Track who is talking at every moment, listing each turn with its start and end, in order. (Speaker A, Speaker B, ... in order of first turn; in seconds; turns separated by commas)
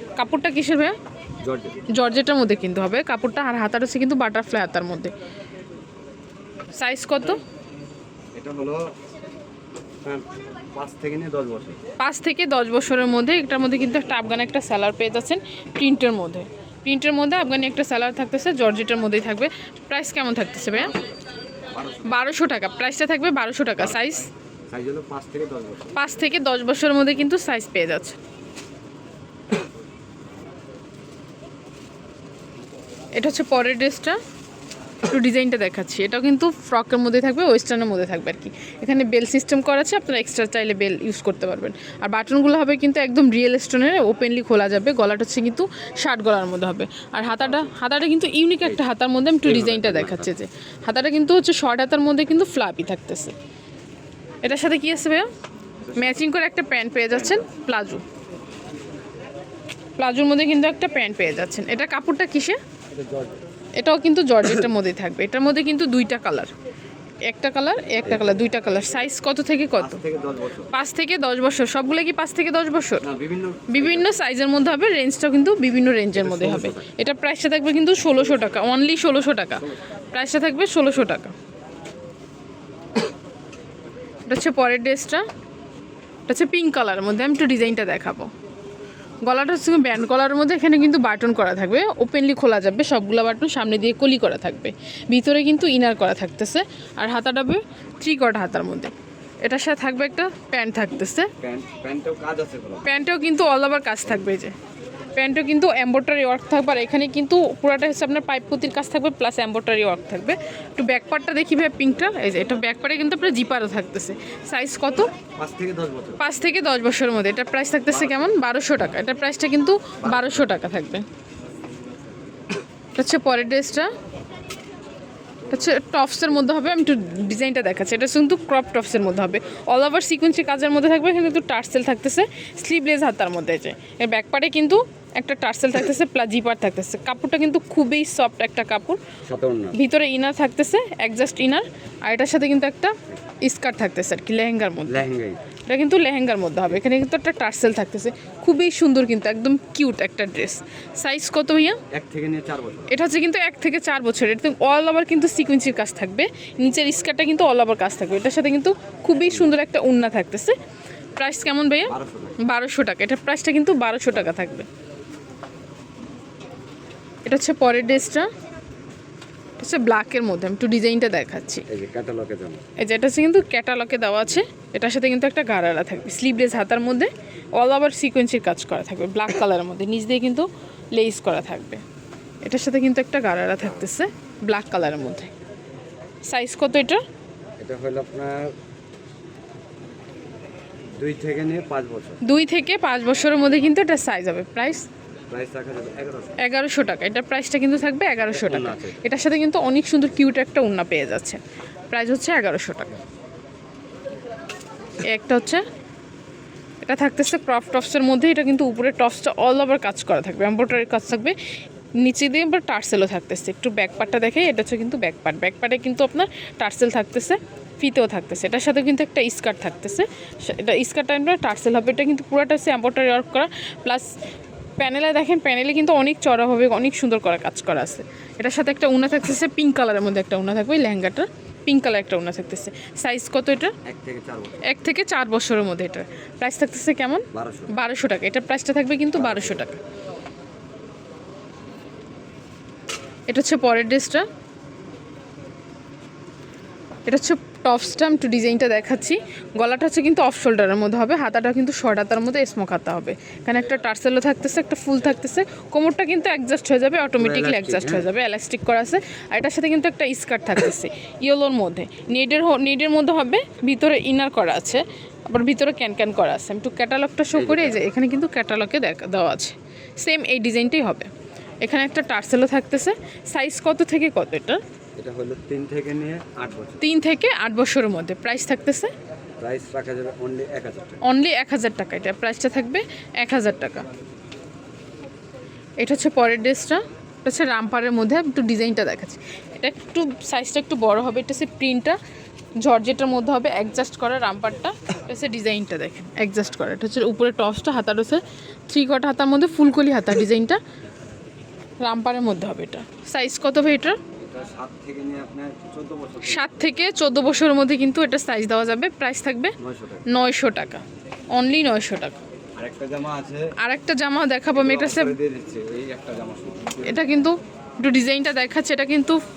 Speaker A: 0.2-0.9, Speaker B: 1.4-1.8, Speaker A: 1.9-5.1, Speaker A: 6.7-7.4, Speaker B: 8.3-8.9, Speaker B: 10.0-11.8, Speaker A: 12.0-20.9, Speaker B: 20.7-21.2, Speaker B: 21.7-22.2, Speaker A: 22.0-24.3, Speaker B: 23.8-24.1, Speaker B: 24.7-26.0, Speaker A: 25.9-28.1, Speaker A: 33.1-34.2, Speaker A: 35.1-53.3, Speaker B: 49.4-50.3, Speaker A: 54.4-55.3, Speaker B: 55.8-56.2, Speaker A: 55.9-58.0, Speaker B: 57.1-57.5, Speaker A: 60.0-62.6, Speaker B: 62.9-63.4, Speaker A: 63.8-66.5, Speaker A: 67.2-70.0, Speaker B: 68.0-68.3, Speaker B: 69.8-70.7, Speaker A: 70.7-73.0, Speaker B: 73.0-74.1, Speaker A: 73.7-81.3, Speaker B: 76.1-76.9, Speaker A: 84.3-85.2, Speaker A: 86.3-88.3, Speaker A: 89.2-101.3, Speaker B: 101.4-102.9, Speaker A: 102.8-104.5, Speaker A: 105.2-115.1, Speaker B: 115.3-116.2, Speaker A: 116.2-121.0, Speaker B: 117.9-118.3, Speaker B: 120.0-120.5, Speaker A: 122.9-123.9, Speaker B: 125.4-125.7, Speaker A: 125.5-139.0, Speaker B: 139.2-139.8, Speaker A: 139.7-145.0, Speaker B: 144.9-145.4, Speaker A: 145.7-151.8, Speaker B: 151.9-152.9, Speaker A: 152.9-160.6, Speaker A: 161.2-164.7, Speaker B: 161.9-162.4, Speaker A: 167.2-168.3, Speaker A: 169.6-171.7, Speaker B: 171.7-172.6, Speaker A: 172.8-181.8, Speaker A: 182.4-185.3, Speaker A: 186.2-187.0, Speaker B: 187.6-188.5, Speaker B: 191.0-192.2, Speaker A: 192.2-194.9, Speaker B: 195.3-196.4, Speaker A: 196.4-203.0, Speaker B: 198.2-199.0, Speaker A: 205.0-205.6, Speaker A: 206.8-211.3, Speaker A: 212.0-224.1, Speaker A: 224.8-233.7, Speaker B: 233.8-234.7, Speaker A: 234.6-239.8, Speaker B: 237.3-237.7, Speaker B: 239.2-239.7, Speaker A: 243.3-244.3, Speaker A: 247.1-271.1, Speaker B: 257.2-258.1, Speaker B: 267.3-267.8, Speaker A: 271.6-274.6, Speaker B: 275.0-276.8, Speaker A: 276.8-278.9, Speaker B: 279.4-281.0, Speaker A: 281.0-283.9, Speaker A: 285.8-292.0, Speaker A: 292.6-300.6, Speaker A: 301.8-304.0, Speaker B: 304.1-306.5, Speaker A: 306.2-309.6, Speaker B: 309.6-310.1, Speaker A: 310.1-312.1, Speaker B: 312.6-313.5, Speaker A: 313.6-315.1, Speaker B: 314.5-317.0, Speaker A: 316.8-319.2